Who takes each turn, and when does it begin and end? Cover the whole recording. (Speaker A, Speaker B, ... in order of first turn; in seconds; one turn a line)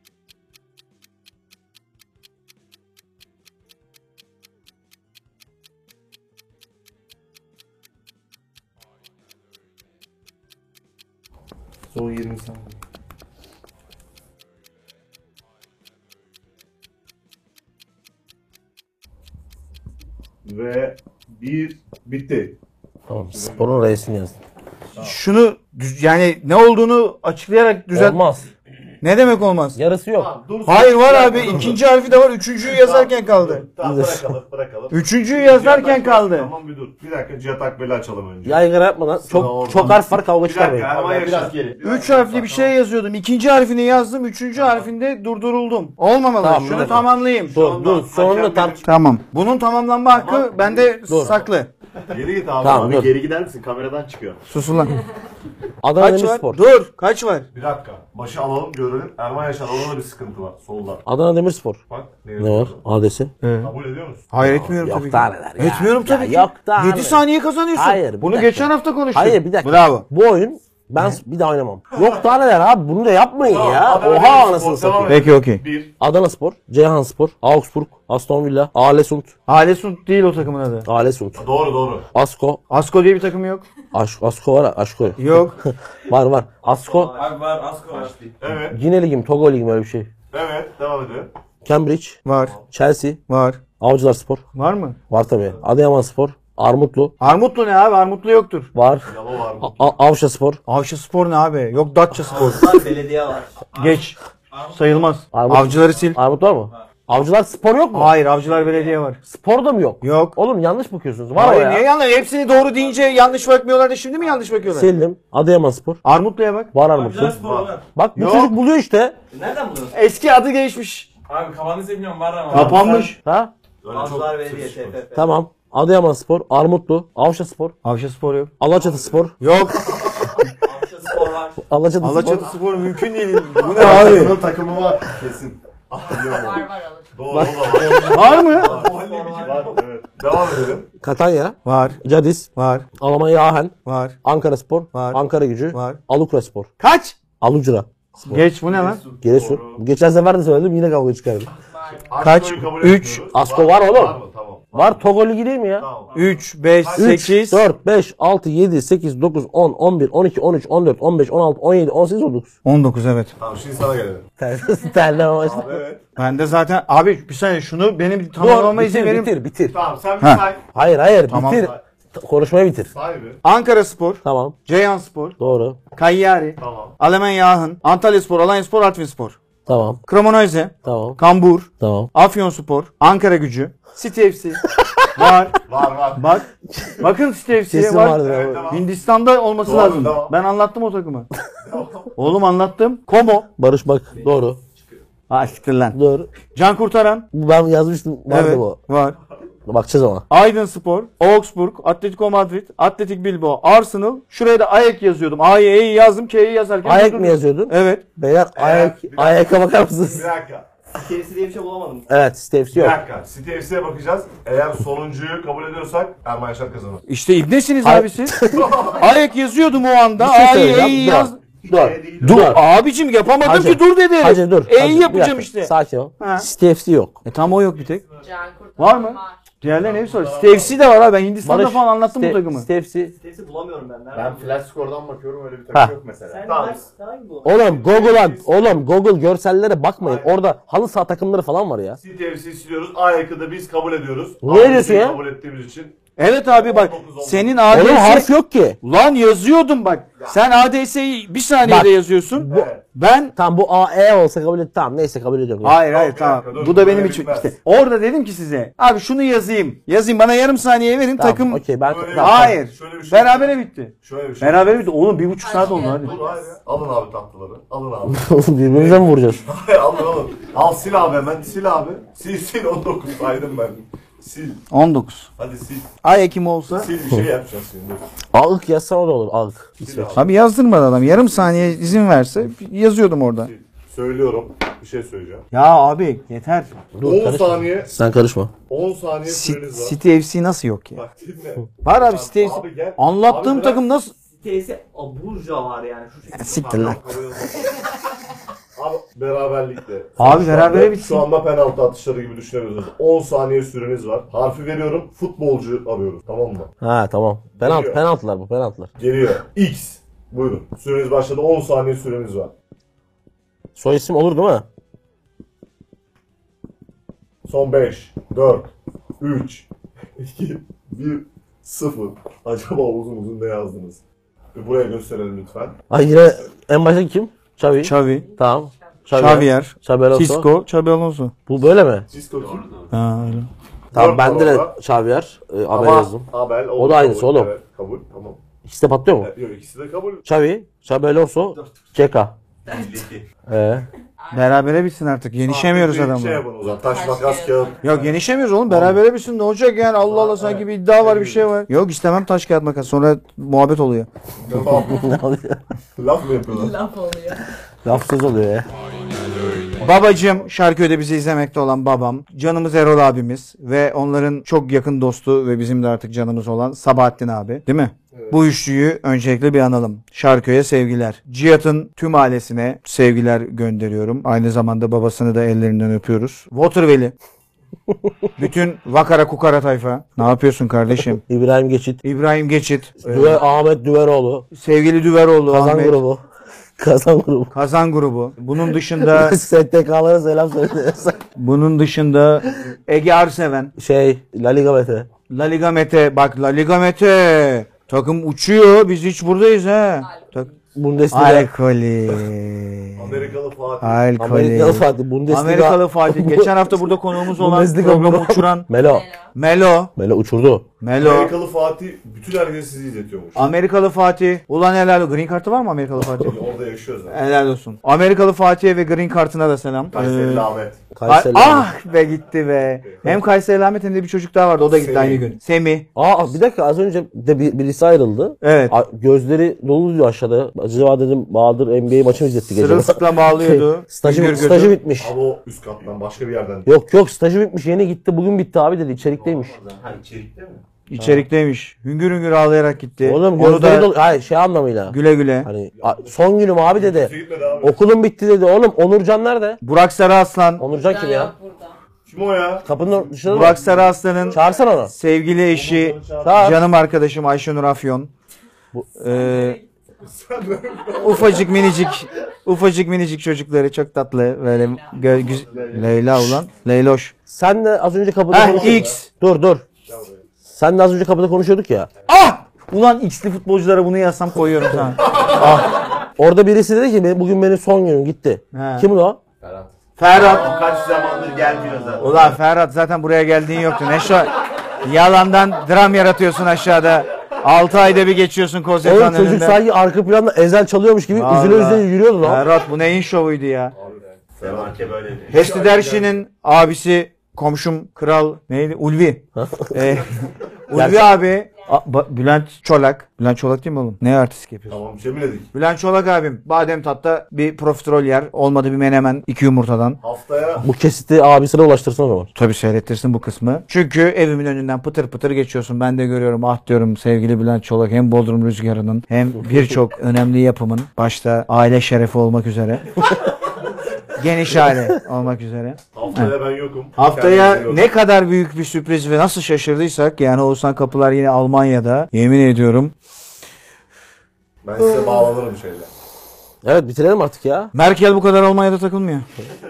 Speaker A: 11.9-12.8
Speaker A: 20.4-22.6
Speaker B: 23.1-24.4
Speaker A: 23.2-23.9
Speaker C: 25.0-28.2
Speaker B: 27.9-28.5
Speaker C: 29.0-29.8
Speaker B: 29.8-30.3
Speaker A: 30.1-31.8
Speaker C: 30.7-33.7
Speaker A: 32.6-38.7
Speaker B: 33.8-34.4
Speaker C: 34.9-36.5
Speaker B: 38.4-40.9
Speaker A: 39.2-42.1
Speaker C: 39.4-40.0
Speaker D: 40.8-42.7
Speaker C: 41.8-47.6
Speaker B: 46.4-48.9
Speaker A: 46.8-48.9
Speaker C: 48.9-51.7
Speaker A: 50.2-50.5
Speaker D: 50.5-50.8
Speaker B: 51.1-51.4
Speaker A: 52.1-53.1
Speaker B: 52.6-53.1
Speaker D: 52.9-54.4
Speaker C: 54.5-55.0
Speaker B: 55.8-56.6
Speaker C: 56.0-57.5
Speaker A: 57.5-61.0
Speaker B: 61.1-61.8
Speaker A: 61.9-62.8
Speaker B: 62.4-63.3
Speaker C: 63.4-63.7
Speaker A: 63.6-64.6
Speaker C: 64.3-70.1
Speaker B: 64.4-75.3
Speaker A: 73.5-75.9
Speaker C: 75.1-75.6
Speaker B: 76.0-79.3
Speaker C: 79.5-80.9
Speaker B: 80.8-81.5
Speaker A: 81.4-82.1
Speaker B: 82.1-82.6
Speaker C: 82.7-83.7
Speaker B: 83.9-87.2
Speaker C: 85.2-85.6
Speaker D: 86.6-87.4
Speaker E: 87.1-88.2
Speaker D: 87.9-88.4
Speaker A: 88.4-88.8
Speaker B: 88.5-90.1
Speaker A: 90.3-91.3
Speaker B: 91.6-92.2
Speaker C: 92.2-92.6
Speaker B: 92.7-93.2
Speaker C: 93.3-93.6
Speaker B: 93.8-94.4
Speaker C: 94.5-95.0
Speaker B: 95.1-97.1
Speaker C: 97.2-98.7
Speaker B: 98.8-100.6
Speaker A: 99.1-99.9
Speaker C: 100.7-102.8
Speaker D: 102.3-103.6
Speaker E: 103.7-105.2
Speaker C: 103.8-104.2
Speaker C: 104.7-106.2
Speaker B: 105.3-108.2
Speaker C: 107.9-109.2
Speaker E: 108.5-108.9
Speaker B: 109.2-111.9
Speaker C: 110.0-110.4
Speaker C: 111.3-114.9
Speaker B: 114.7-116.0
Speaker C: 116.0-116.7
Speaker B: 116.7-117.4
Speaker E: 116.9-117.9
Speaker A: 117.4-117.8
Speaker B: 117.9-119.2
Speaker C: 118.2-118.5
Speaker D: 119.3-120.0
Speaker C: 119.9-121.1
Speaker E: 121.3-123.0
Speaker C: 122.5-123.2
Speaker D: 122.6-123.2
Speaker B: 123.2-123.5
Speaker A: 123.8-125.0
Speaker D: 123.9-125.3
Speaker B: 125.2-127.8
Speaker C: 127.8-128.5
Speaker B: 128.6-129.3
Speaker A: 128.8-129.0
Speaker C: 129.4-130.1
Speaker A: 129.8-130.4
Speaker D: 130.6-131.6
Speaker B: 131.6-132.5
Speaker C: 132.0-134.4
Speaker A: 133.6-140.9
Speaker D: 134.0-134.2
Speaker F: 136.2-137.6
Speaker B: 137.3-138.4
Speaker D: 138.0-139.9
Speaker C: 138.0-138.8
Speaker B: 141.0-146.7
Speaker C: 141.7-142.0
Speaker C: 142.6-142.9
Speaker C: 143.8-144.2
Speaker C: 144.9-146.0
Speaker C: 146.8-147.2
Speaker B: 147.4-148.4
Speaker C: 148.3-149.0
Speaker A: 148.7-149.8
Speaker D: 148.9-149.2
Speaker B: 149.2-151.5
Speaker A: 152.0-155.1
Speaker C: 152.2-153.3
Speaker B: 153.3-154.2
Speaker B: 154.7-155.9
Speaker A: 155.8-156.2
Speaker C: 156.1-157.7
Speaker A: 156.8-157.2
Speaker B: 157.0-162.5
Speaker C: 162.7-163.3
Speaker A: 163.4-164.3
Speaker B: 164.4-165.8
Speaker A: 165.4-166.0
Speaker C: 166.2-169.3
Speaker B: 168.4-169.8
Speaker A: 169.7-170.6
Speaker B: 170.8-172.9
Speaker C: 171.3-171.7
Speaker A: 171.4-171.8
Speaker A: 172.9-173.4
Speaker C: 173.4-175.4
Speaker B: 174.2-174.6
Speaker B: 175.4-175.8
Speaker C: 175.9-179.4
Speaker A: 176.6-177.0
Speaker B: 179.7-180.0
Speaker C: 180.1-185.6
Speaker B: 180.8-181.2
Speaker B: 181.8-182.1
Speaker B: 184.8-185.1
Speaker A: 185.7-186.3
Speaker C: 186.2-186.5
Speaker B: 186.7-187.1
Speaker C: 187.0-191.3
Speaker B: 187.7-188.8
Speaker A: 188.1-189.0
Speaker A: 189.6-190.4
Speaker A: 191.6-192.1
Speaker C: 192.2-193.5
Speaker B: 193.6-194.6
Speaker C: 195.3-196.0
Speaker B: 195.9-196.3
Speaker C: 196.5-197.3
Speaker B: 197.3-198.8
Speaker C: 198.3-199.2
Speaker B: 199.7-200.3
Speaker C: 200.3-208.0
Speaker B: 206.8-210.3
Speaker A: 208.6-210.7
Speaker D: 211.0-212.1
Speaker B: 212.1-213.0
Speaker A: 212.7-217.0
Speaker C: 217.1-218.4
Speaker B: 217.8-218.8
Speaker A: 218.5-219.1
Speaker C: 219.0-221.4
Speaker B: 220.2-222.6
Speaker D: 221.7-222.5
Speaker A: 222.1-222.4
Speaker C: 222.2-226.5
Speaker B: 223.4-227.2
Speaker C: 227.2-228.1
Speaker F: 228.2-229.4
Speaker C: 228.8-232.7
Speaker A: 229.7-230.8
Speaker B: 231.4-233.1
Speaker D: 233.2-238.4
Speaker A: 234.2-234.6
Speaker A: 236.3-236.8
Speaker B: 237.4-242.0
Speaker A: 237.6-238.8
Speaker A: 242.0-245.9
Speaker B: 244.4-245.2
Speaker C: 246.2-248.3
Speaker A: 246.5-247.9
Speaker B: 247.7-248.8
Speaker C: 248.8-253.3
Speaker B: 251.6-252.7
Speaker A: 252.5-252.8
Speaker B: 253.4-255.8
Speaker C: 255.6-261.6
Speaker A: 255.8-257.6
Speaker B: 261.2-262.6
Speaker A: 261.9-264.9
Speaker C: 262.1-266.1
Speaker F: 265.4-266.6
Speaker A: 265.6-274.6
Speaker B: 268.1-269.5
Speaker C: 274.7-275.3
Speaker A: 275.4-275.9
Speaker C: 276.0-276.9
Speaker A: 276.7-278.0
Speaker B: 278.3-280.2
Speaker A: 279.8-280.3
Speaker C: 280.1-283.5
Speaker A: 283.4-285.5
Speaker C: 285.5-286.7
Speaker B: 286.9-288.5
Speaker A: 287.0-287.9
Speaker A: 288.7-290.0
Speaker C: 289.3-291.0
Speaker A: 290.9-293.8
Speaker C: 291.8-294.1
Speaker D: 294.3-297.3
Speaker C: 296.4-297.0
Speaker A: 296.6-297.8
Speaker A: 298.8-306.7
Speaker C: 300.2-301.3
Speaker B: 306.8-308.9
Speaker A: 307.6-308.0
Speaker A: 309.0-312.5
Speaker B: 313.8-314.7
Speaker A: 317.5-319.7
Speaker A: 320.2-324.0
Speaker A: 324.5-325.8
Speaker B: 325.9-330.5
Speaker C: 327.8-328.3
Speaker F: 328.0-328.9
Speaker C: 329.1-331.3
Speaker B: 331.5-332.1
Speaker A: 332.1-332.9
Speaker D: 332.4-332.9
Speaker C: 332.9-333.5
Speaker A: 333.9-334.8
Speaker B: 333.9-337.5
Speaker A: 335.7-338.4
Speaker B: 338.6-339.3
Speaker A: 339.2-340.2
Speaker B: 340.2-342.4
Speaker D: 342.7-343.2
Speaker B: 343.5-343.9
Speaker F: 344.2-344.6
Speaker C: 344.3-346.4
Speaker A: 345.5-348.1
Speaker F: 346.8-348.1
Speaker C: 347.8-354.1
Speaker A: 350.1-351.5
Speaker A: 354.4-355.1
Speaker B: 354.7-355.6
Speaker A: 356.0-356.8
Speaker F: 356.5-357.5
Speaker B: 357.8-358.7
Speaker A: 359.8-360.2
Speaker C: 359.8-377.1
Speaker A: 368.1-368.4
Speaker C: 378.4-381.2
Speaker B: 381.2-382.0
Speaker C: 382.0-383.4
Speaker B: 383.0-384.5
Speaker C: 384.5-386.0
Speaker B: 385.5-386.2
Speaker B: 386.8-387.5
Speaker C: 387.5-389.4
Speaker B: 388.9-391.2
Speaker C: 391.4-393.7
Speaker B: 393.8-395.1
Speaker C: 395.3-400.5
Speaker F: 400.0-400.6
Speaker B: 400.8-401.5
Speaker C: 401.1-408.7
Speaker A: 403.0-404.0
Speaker B: 404.2-409.1
Speaker F: 408.8-409.3
Speaker C: 409.4-409.9
Speaker B: 410.0-410.7
Speaker C: 410.8-411.4
Speaker A: 411.0-413.5
Speaker C: 413.4-416.4
Speaker A: 416.0-417.2
Speaker C: 417.1-420.5
Speaker A: 419.9-420.8
Speaker B: 420.9-421.7
Speaker C: 421.1-425.9
Speaker A: 422.8-423.2
Speaker A: 424.7-425.3
Speaker B: 426.0-435.1
Speaker C: 428.4-428.8
Speaker C: 432.4-434.7
Speaker A: 434.1-436.7
Speaker B: 436.7-439.6
Speaker D: 439.0-440.6
Speaker C: 440.9-443.9
Speaker B: 441.0-441.2
Speaker B: 443.0-449.6
Speaker C: 444.9-445.5
Speaker A: 445.8-446.1
Speaker A: 446.7-447.8
Speaker C: 449.6-450.6
Speaker B: 450.6-451.3
Speaker F: 450.8-451.8
Speaker A: 452.1-454.6
Speaker B: 452.6-453.6
Speaker C: 453.2-454.4
Speaker B: 454.3-454.9
Speaker C: 454.9-458.1
Speaker A: 455.5-456.6
Speaker B: 456.2-456.6
Speaker C: 459.0-459.6
Speaker F: 459.1-459.6
Speaker A: 460.0-461.5
Speaker C: 461.0-467.1
Speaker A: 465.1-466.4
Speaker B: 467.3-469.6
Speaker C: 468.3-469.1
Speaker A: 468.4-469.0
Speaker A: 469.9-470.2
Speaker B: 470.4-471.9
Speaker C: 472.1-475.7
Speaker B: 474.7-479.2
Speaker A: 475.0-475.5
Speaker C: 478.5-478.9
Speaker D: 479.4-482.3
Speaker C: 480.0-480.6
Speaker A: 480.1-482.4
Speaker C: 482.0-489.6
Speaker B: 488.8-492.4
Speaker C: 491.1-493.8
Speaker A: 493.8-496.2
Speaker D: 494.4-495.4
Speaker C: 495.3-500.1
Speaker B: 499.4-499.9
Speaker C: 500.7-504.8
Speaker B: 500.7-501.2
Speaker A: 504.7-505.5
Speaker C: 505.5-510.0
Speaker A: 510.0-510.7
Speaker B: 510.6-512.3
Speaker C: 512.4-523.0
Speaker B: 519.4-519.8
Speaker C: 524.2-526.3
Speaker A: 525.9-527.9
Speaker C: 527.0-532.9
Speaker A: 534.6-535.9
Speaker B: 536.6-537.7
Speaker C: 537.7-539.2